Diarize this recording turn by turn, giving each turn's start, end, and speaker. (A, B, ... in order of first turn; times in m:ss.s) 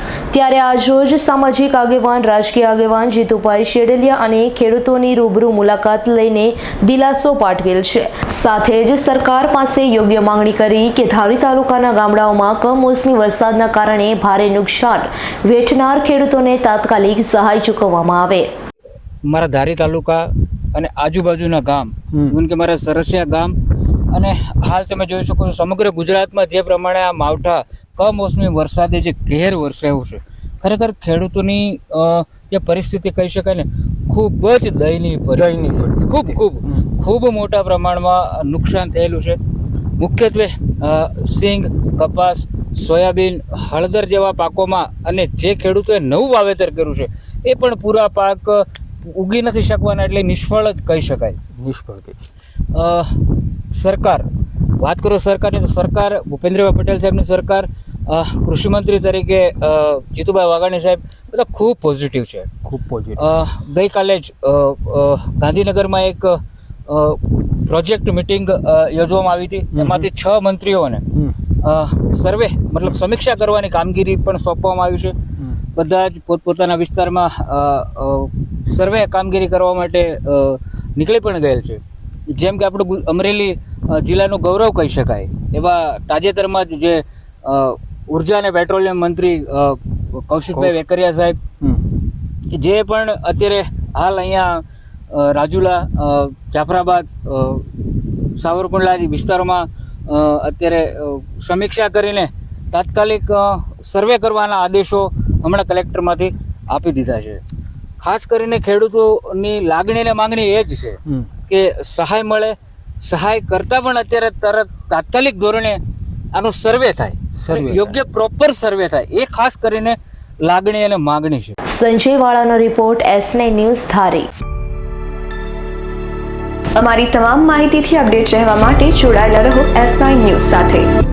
0:00.3-0:18.5 A
0:19.2-0:23.6 B
0:24.1-0:39.4 B
0:35.4-0:36.8 C
0:40.0-0:51.4 B
0:51.6-0:52.2 C
0:52.7-1:02.5 B
1:02.6-1:03.4 C
1:03.2-1:15.2 B
1:09.8-1:10.1 C
1:15.8-1:31.4 B
1:31.6-1:31.9 C
1:32.5-1:47.4 B
1:48.0-1:55.8 B
1:56.3-2:01.6 B
1:57.4-1:58.0 C
2:01.7-2:04.3 A
2:06.8-2:10.9 D